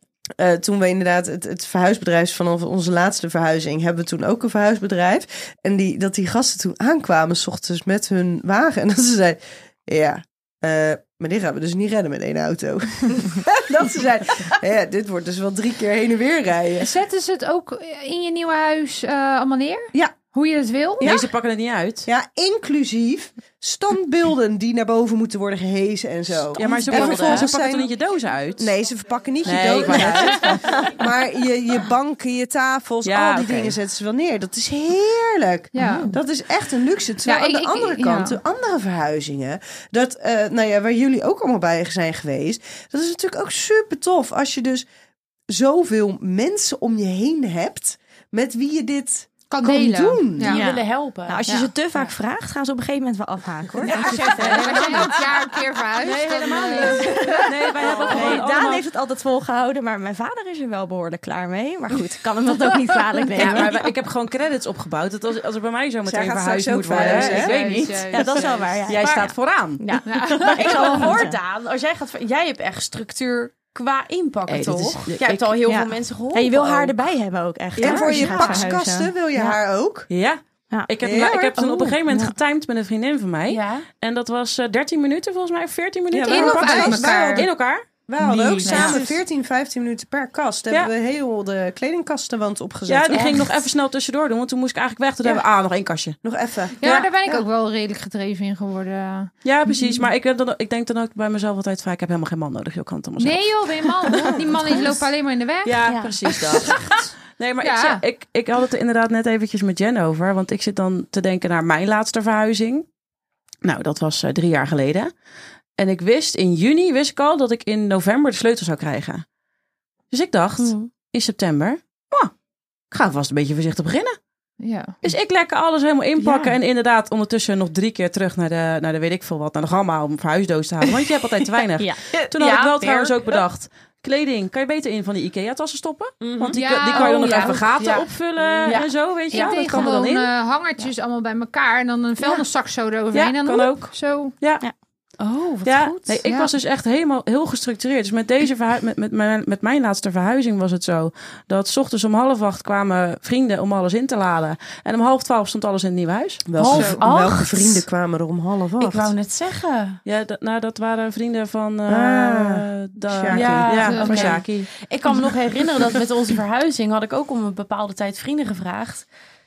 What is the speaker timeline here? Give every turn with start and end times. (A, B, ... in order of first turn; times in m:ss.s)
0:00.4-0:16.9 A
0:16.8-0:21.2 B
0:21.0-0:21.3 A
0:21.0-0:22.1 C
0:22.0-0:28.0 A
0:26.5-0:28.7 C
0:28.6-0:44.8 A
0:29.4-0:30.8 C
0:33.0-0:33.8 C
0:35.7-0:36.1 B
0:35.8-0:36.1 D
0:37.2-0:38.4 B
0:45.5-0:50.6 A
0:49.5-0:50.6 B
0:50.5-0:51.4 E
0:50.5-0:55.1 D
0:51.5-0:52.1 B
0:53.8-0:55.2 C
0:54.1-0:57.3 B
0:56.0-0:58.8 C
0:56.8-1:03.9 D
0:58.0-0:58.4 B
1:03.3-1:09.9 C
1:06.0-1:07.6 A
1:06.9-1:08.7 B
1:08.1-1:11.3 D
1:10.0-1:11.1 B
1:10.4-1:17.0 E
1:14.5-1:15.6 C
1:15.6-1:19.6 D
1:17.8-1:20.1 A
1:17.8-1:18.6 E
1:20.1-1:29.0 C
1:21.0-1:21.6 A
1:21.6-1:22.3 D
1:23.5-1:23.9 E
1:26.1-1:33.3 A
1:26.2-1:27.5 B
1:28.6-1:28.8 E
1:28.6-1:29.1 B
1:32.8-1:36.2 C
1:33.1-1:33.5 E
1:36.2-1:36.8 A
1:36.8-1:39.9 B
1:36.8-1:37.1 C
1:39.4-1:45.0 C
1:43.2-1:45.9 B
1:45.6-1:52.8 C
1:45.8-1:46.7 D
1:46.5-1:47.1 B
1:47.6-1:48.0 B
1:53.6-1:55.1 C
1:55.8-1:59.2 C
2:00.1-2:02.3 C
2:00.6-2:00.9 D
2:02.9-2:04.2 C
2:04.6-2:04.9 B
2:05.0-2:20.3 C
2:06.2-2:06.5 D
2:11.8-2:12.0 D
2:12.2-2:13.4 E
2:16.2-2:16.6 A
2:16.5-2:17.7 B
2:16.9-2:19.6 E
2:19.3-2:24.3 B
2:23.1-2:24.6 C
2:25.2-2:26.2 E
2:25.6-2:37.0 C
2:36.4-2:39.1 A
2:36.6-2:37.8 E
2:36.7-2:37.0 B
2:38.8-2:40.0 E
2:40.0-2:44.7 C
2:41.9-2:43.8 A
2:43.3-2:49.1 E
2:43.8-2:44.4 B